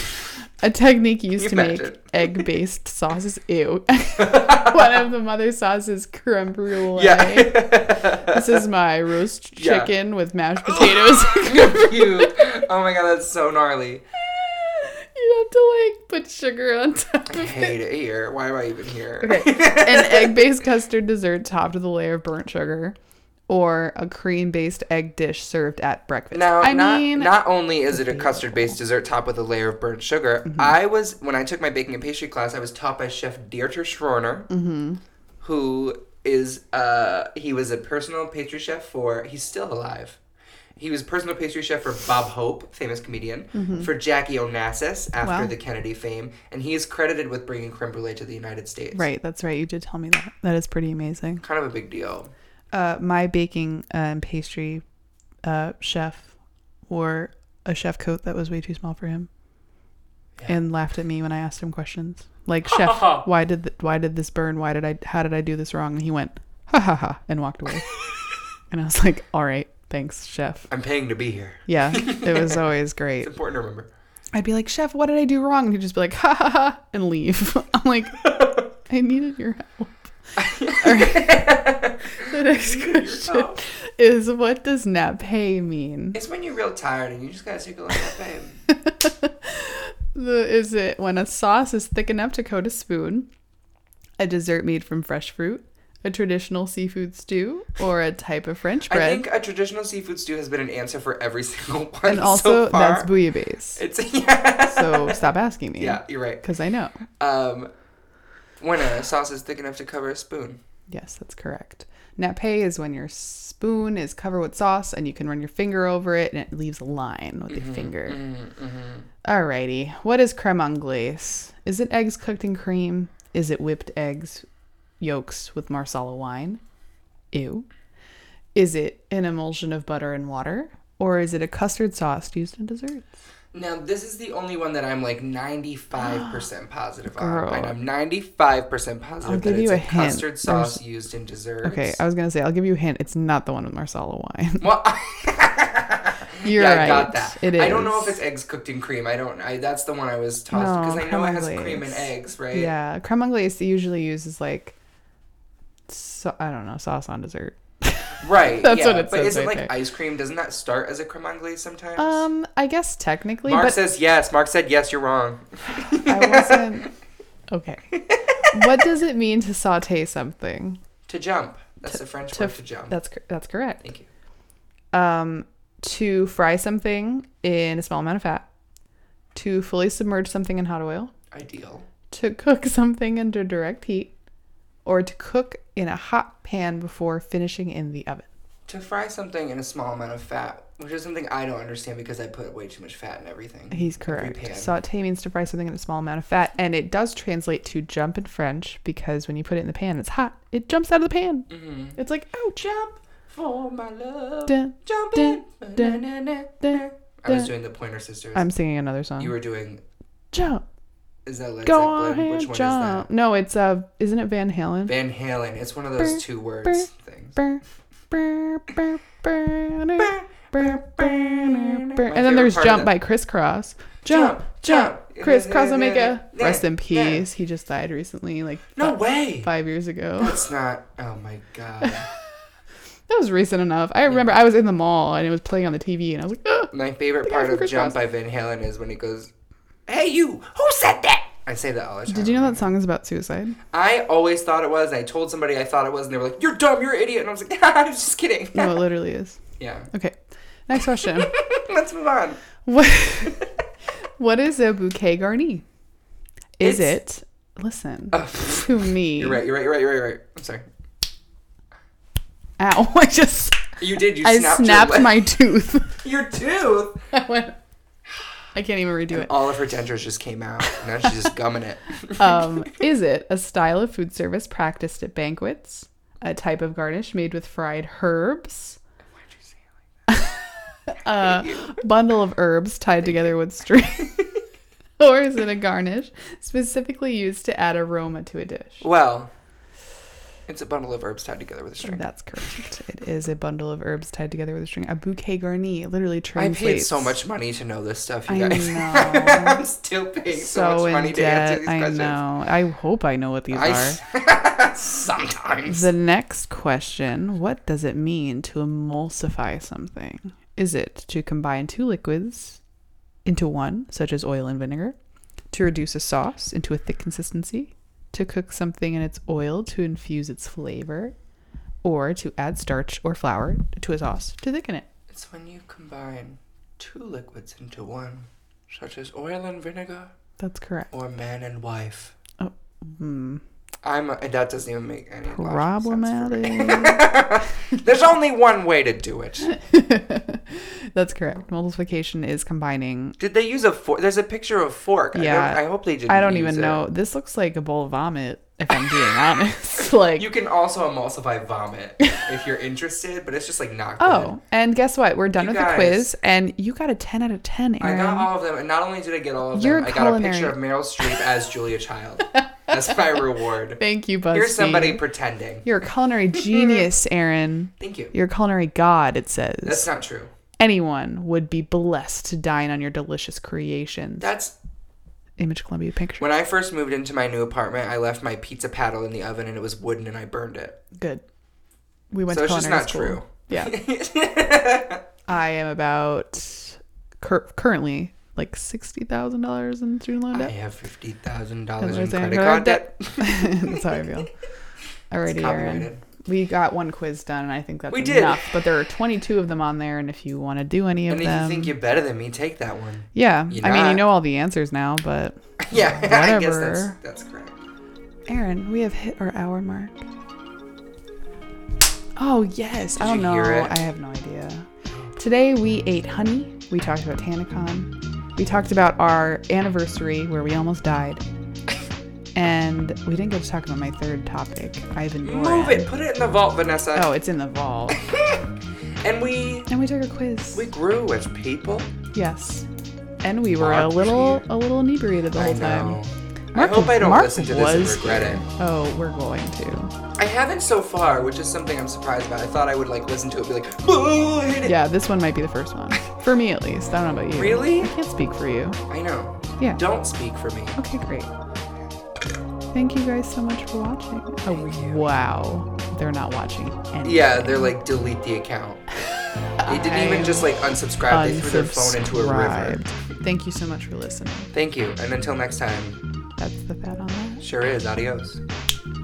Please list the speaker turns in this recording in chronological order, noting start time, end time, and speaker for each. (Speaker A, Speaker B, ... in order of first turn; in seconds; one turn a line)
Speaker A: 0.6-12.5
Speaker B: 1.4-2.5
Speaker B: 4.2-5.0
Speaker B: 6.9-8.6
Speaker B: 9.6-9.9
Speaker B: 10.6-14.0
Speaker A: 14.2-17.7
Speaker B: 17.2-20.5
Speaker A: 19.2-22.9
Speaker A: 23.5-28.8
Speaker B: 26.3-34.5
Speaker A: 30.5-30.7
Speaker A: 34.5-35.0
Speaker B: 35.4-40.2
Speaker B: 40.8-49.0
Speaker A: 43.5-43.9
Speaker A: 45.2-45.5
Speaker A: 48.9-51.4
Speaker B: 51.4-52.3
Speaker A: 52.7-54.8
Speaker A: 55.4-56.3
Speaker A: 56.9-59.3
Speaker A: 60.5-67.9
Speaker B: 62.7-63.2
Speaker A: 68.7-70.7
Speaker B: 70.7-72.6
Speaker A: 71.7-73.3
Speaker B: 73.2-73.9
Speaker A: 74.3-78.2
Speaker B: 78.2-78.7
Speaker A: 78.8-80.1
Speaker B: 80.4-83.6
Speaker A: 80.8-81.5
Speaker A: 82.2-86.2
Speaker B: 86.1-88.6
Speaker A: 88.7-93.3
Speaker A: 94.2-99.2
Speaker B: 98.9-103.1
Speaker A: 102.0-103.8
Speaker B: 103.8-105.2
Speaker A: 104.7-107.0
Speaker B: 105.8-106.4
Speaker B: 107.2-107.7
Speaker B: 108.6-110.6
Speaker A: 110.9-118.2
Speaker B: 117.5-119.1
Speaker A: 119.2-124.4
Speaker A: 125.0-126.6
Speaker A: 127.3-127.7
Speaker A: 128.5-133.1
Speaker B: 133.5-142.0
Speaker A: 135.9-136.4
Speaker A: 137.2-137.8
Speaker A: 139.2-140.8
Speaker A: 141.6-144.6
Speaker B: 144.6-152.7
Speaker A: 146.4-148.2
Speaker A: 150.5-154.8
Speaker A: 155.9-159.7
Speaker B: 158.2-162.2
Speaker A: 162.0-163.8
Speaker B: 163.4-166.9
Speaker A: 165.7-166.9
Speaker A: 167.5-170.8
Speaker B: 167.9-168.6
Speaker B: 171.1-172.9
Speaker A: 171.9-173.8
Speaker A: 174.9-178.5
Speaker A: 179.3-181.1
Speaker B: 181.3-181.8
Speaker A: 182.1-184.1
Speaker A: 184.8-188.3
Speaker B: 188.7-194.7
Speaker A: 193.7-202.7
Speaker B: 201.5-202.0
Speaker B: 202.6-208.5
Speaker A: 204.5-206.0
Speaker A: 206.6-207.5
Speaker A: 208.3-209.3
Speaker B: 209.2-209.8
Speaker A: 210.3-210.6
Speaker B: 211.2-213.1
Speaker A: 211.6-214.9
Speaker B: 214.9-217.4
Speaker A: 216.0-230.5
Speaker B: 220.0-222.9
Speaker B: 224.1-227.2
Speaker B: 228.7-229.5
Speaker B: 230.2-232.1
Speaker A: 231.8-232.4
Speaker A: 233.1-236.7
Speaker B: 236.7-239.3
Speaker A: 237.2-238.0
Speaker B: 239.9-242.7
Speaker A: 242.1-243.6
Speaker B: 243.7-248.8
Speaker A: 248.5-251.3
Speaker B: 249.6-249.9
Speaker B: 251.0-252.4
Speaker A: 252.6-253.4
Speaker B: 253.2-253.5
Speaker A: 254.2-255.6
Speaker A: 256.6-259.4
Speaker B: 256.6-256.9
Speaker B: 258.1-260.6
Speaker A: 262.6-266.0
Speaker B: 263.8-265.1
Speaker B: 266.0-267.1
Speaker A: 267.1-267.6
Speaker A: 268.5-269.5
Speaker B: 269.1-272.5
Speaker A: 270.6-271.1
Speaker A: 272.1-278.8
Speaker A: 280.1-284.3
Speaker B: 281.2-281.7
Speaker A: 285.0-288.8
Speaker B: 288.8-289.3
Speaker B: 290.5-292.6
Speaker A: 291.8-297.2
Speaker B: 296.4-302.2
Speaker A: 298.3-299.6
Speaker A: 300.3-304.0
Speaker B: 303.5-305.9
Speaker A: 305.7-312.6
Speaker A: 313.2-315.0
Speaker A: 315.5-321.1
Speaker A: 321.8-324.9
Speaker B: 325.1-330.1
Speaker A: 330.4-330.9
Speaker B: 330.9-332.1
Speaker A: 332.4-333.4
Speaker B: 333.8-339.5
Speaker A: 335.3-337.1
Speaker A: 339.4-343.2
Speaker B: 343.2-346.8
Speaker A: 345.1-350.3
Speaker B: 350.1-354.4
Speaker A: 354.0-358.3
Speaker B: 355.4-356.1
Speaker B: 357.8-363.8
Speaker A: 359.5-361.2
Speaker A: 362.4-363.2
Speaker A: 363.8-365.0
Speaker B: 364.3-365.6
Speaker A: 365.6-369.9
Speaker B: 366.3-366.8
Speaker B: 367.8-368.1
Speaker B: 369.6-370.3
Speaker A: 370.6-374.3
Speaker B: 374.2-374.5
Speaker A: 375.4-376.2
Speaker B: 376.2-380.8
Speaker A: 380.9-381.2
Speaker A: 382.1-383.7
Speaker B: 382.3-385.0
Speaker A: 385.2-390.5
Speaker B: 390.3-394.1
Speaker A: 391.8-394.3
Speaker A: 395.1-401.7
Speaker B: 395.3-396.0
Speaker B: 397.9-398.4
Speaker B: 401.1-404.1
Speaker A: 403.1-407.0
Speaker B: 405.6-407.6
Speaker A: 408.3-410.0
Speaker A: 412.2-421.2
Speaker B: 412.9-413.7
Speaker A: 422.3-425.9
Speaker B: 425.2-427.1
Speaker A: 426.9-428.0
Speaker B: 427.9-428.4
Speaker B: 429.0-429.7
Speaker A: 429.7-430.7
Speaker B: 430.5-431.9
Speaker A: 432.1-432.7
Speaker A: 433.2-436.0
Speaker B: 433.4-434.4
Speaker B: 435.4-438.4
Speaker A: 436.5-439.9
Speaker B: 440.2-444.7
Speaker A: 444.6-448.8
Speaker B: 447.3-447.9
Speaker B: 448.9-450.8
Speaker A: 450.8-451.3
Speaker A: 452.7-457.7
Speaker B: 454.5-455.0
Speaker B: 457.0-458.8
Speaker A: 459.6-460.5
Speaker B: 459.6-462.9
Speaker A: 461.1-464.5
Speaker B: 464.5-466.0
Speaker A: 466.4-467.4
Speaker B: 467.4-468.4